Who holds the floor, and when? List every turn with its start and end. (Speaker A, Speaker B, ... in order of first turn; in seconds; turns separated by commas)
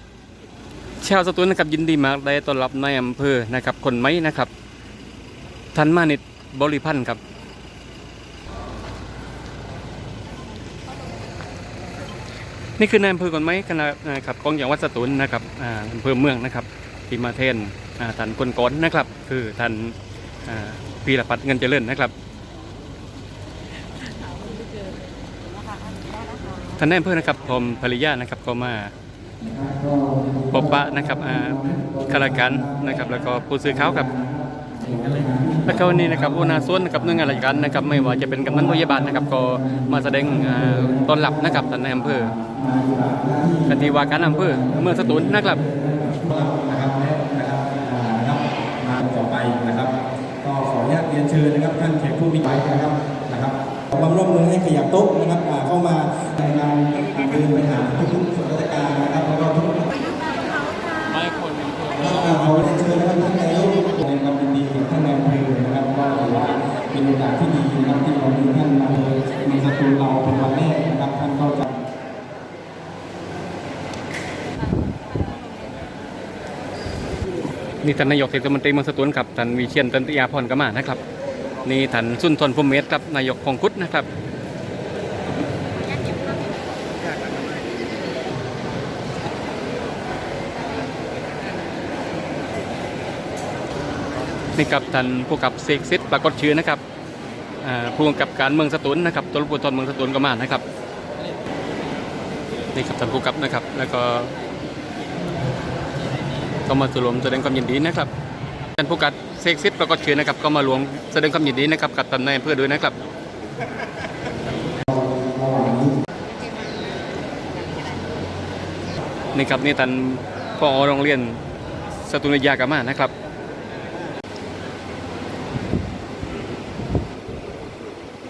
Speaker A: 1.0-4.5, Speaker A: 5.7-7.2, Speaker A: 12.8-19.9, Speaker A: 20.4-22.1, Speaker A: 26.8-28.9, Speaker B: 29.4-33.0, Speaker A: 30.5-34.1, Speaker B: 33.6-60.0, Speaker A: 35.7-42.3, Speaker A: 43.7-45.6, Speaker A: 61.1-62.4, Speaker B: 61.9-71.7, Speaker A: 77.8-81.0, Speaker A: 81.6-84.1, Speaker A: 94.5-96.8, Speaker A: 97.6-100.6, Speaker A: 102.7-104.3, Speaker A: 106.7-108.1, Speaker A: 108.8-112.9, Speaker B: 114.9-116.0, Speaker A: 119.3-121.4, Speaker A: 122.0-123.1